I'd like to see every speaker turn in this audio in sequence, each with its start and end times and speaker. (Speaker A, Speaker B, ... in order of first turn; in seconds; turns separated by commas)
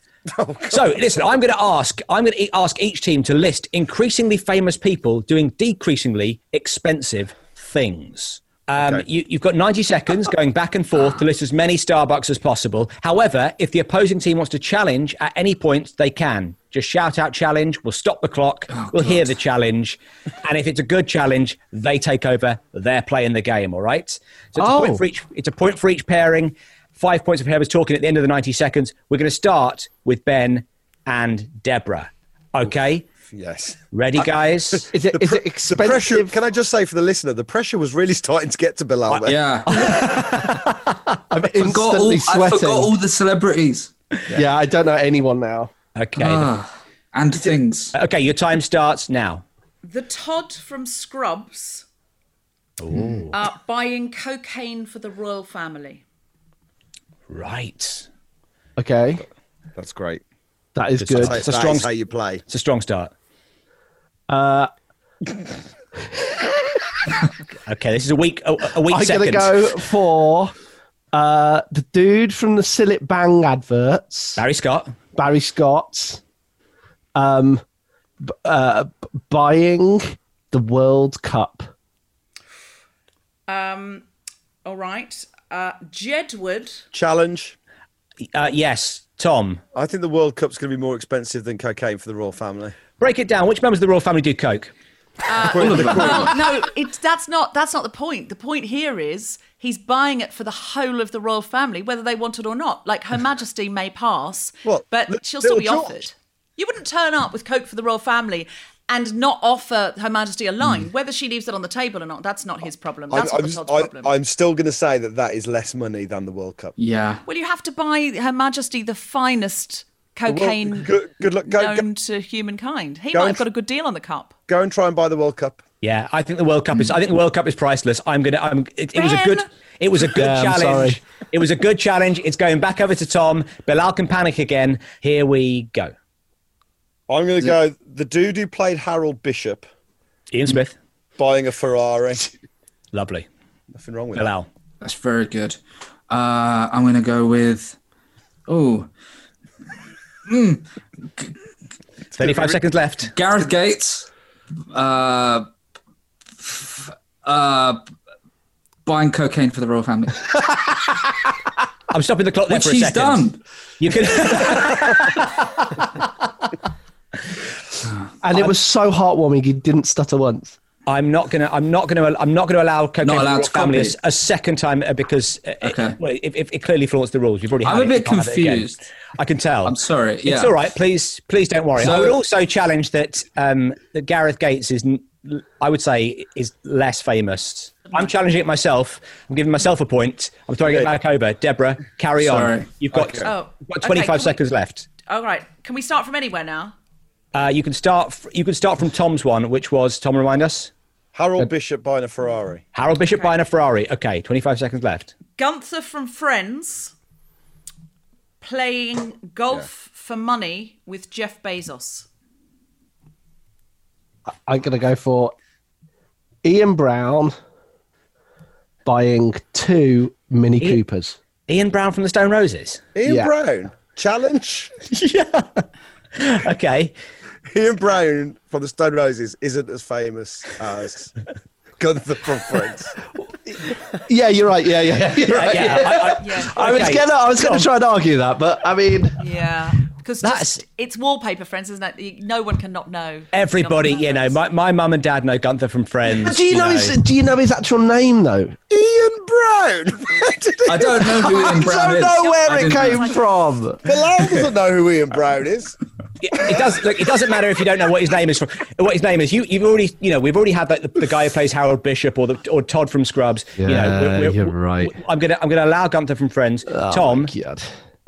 Speaker A: 0.3-1.0, Speaker B: 0.7-33.1, Speaker C: 18.7-19.3, Speaker D: 24.6-25.0, Speaker A: 33.3-39.4, Speaker B: 33.9-34.9, Speaker D: 34.9-36.3, Speaker B: 39.1-41.0, Speaker C: 39.2-39.8, Speaker D: 41.3-42.9, Speaker C: 41.6-43.9, Speaker D: 44.3-45.7, Speaker B: 46.0-46.5, Speaker C: 46.2-47.9, Speaker B: 47.9-49.4, Speaker E: 49.8-51.8, Speaker B: 52.8-53.3, Speaker E: 53.3-56.0, Speaker B: 57.3-58.0, Speaker D: 58.8-59.2, Speaker A: 59.7-60.2, Speaker D: 60.7-61.4, Speaker B: 61.0-61.9, Speaker A: 61.1-62.4, Speaker B: 62.5-63.1, Speaker D: 64.3-64.7, Speaker B: 67.7-69.5, Speaker D: 68.9-70.5, Speaker D: 71.1-74.4, Speaker B: 74.4-74.9, Speaker D: 75.1-76.2, Speaker D: 77.1-77.6, Speaker D: 78.2-81.7, Speaker E: 83.5-84.0, Speaker E: 84.6-86.8, Speaker A: 86.9-87.5, Speaker B: 88.3-89.6, Speaker A: 89.7-92.8, Speaker B: 93.0-94.7, Speaker E: 95.3-114.1, Speaker A: 95.5-96.4, Speaker C: 95.5-96.4, Speaker A: 104.6-106.0, Speaker A: 113.1-116.7, Speaker C: 116.8-117.2, Speaker E: 117.2-120.9, Speaker A: 120.3-121.8, Speaker E: 121.5-124.3, Speaker A: 123.1-123.4, Speaker A: 124.5-125.6, Speaker B: 125.8-135.9, Speaker E: 128.9-129.5, Speaker D: 130.0-131.0, Speaker A: 137.1-139.7, Speaker B: 140.3-140.8, Speaker A: 141.2-142.2, Speaker B: 142.9-143.2, Speaker A: 143.7-144.3, Speaker B: 144.2-144.5, Speaker C: 144.8-145.6, Speaker C: 146.1-147.8, Speaker C: 148.5-148.9, Speaker C: 150.3-150.6, Speaker A: 152.1-152.6, Speaker B: 152.2-153.1, Speaker C: 153.1-154.1, Speaker C: 154.7-155.5, Speaker C: 156.4-157.9, Speaker C: 158.8-160.7, Speaker B: 161.9-163.2, Speaker C: 162.5-163.4, Speaker B: 163.8-166.1, Speaker D: 168.2-170.6, Speaker B: 170.9-194.9, Speaker C: 173.0-173.9, Speaker C: 175.6-176.0, Speaker C: 177.6-178.8, Speaker C: 179.6-180.6, Speaker C: 181.8-182.2, Speaker C: 192.2-192.7, Speaker A: 192.9-193.3, Speaker E: 193.2-194.4, Speaker E: 195.1-196.7, Speaker B: 197.3-200.7, Speaker A: 201.1-202.6, Speaker B: 202.7-205.1, Speaker E: 205.4-206.9, Speaker E: 208.4-212.1, Speaker D: 214.4-215.3, Speaker D: 216.4-217.3, Speaker D: 218.8-221.2, Speaker B: 221.5-222.8, Speaker A: 222.9-224.7, Speaker D: 223.0-223.3, Speaker B: 224.9-226.9, Speaker A: 227.5-231.2, Speaker A: 231.8-232.9, Speaker D: 234.1-239.2, Speaker B: 235.2-237.7, Speaker E: 236.2-236.8, Speaker E: 239.2-244.4, Speaker B: 240.2-240.6, Speaker B: 243.3-247.0, Speaker D: 246.2-248.6, Speaker A: 248.7-253.1, Speaker C: 250.6-253.1, Speaker E: 251.7-253.1, Speaker D: 252.5-253.8, Speaker A: 253.8-255.8, Speaker B: 256.2-267.3, Speaker D: 263.6-264.9, Speaker D: 266.7-267.7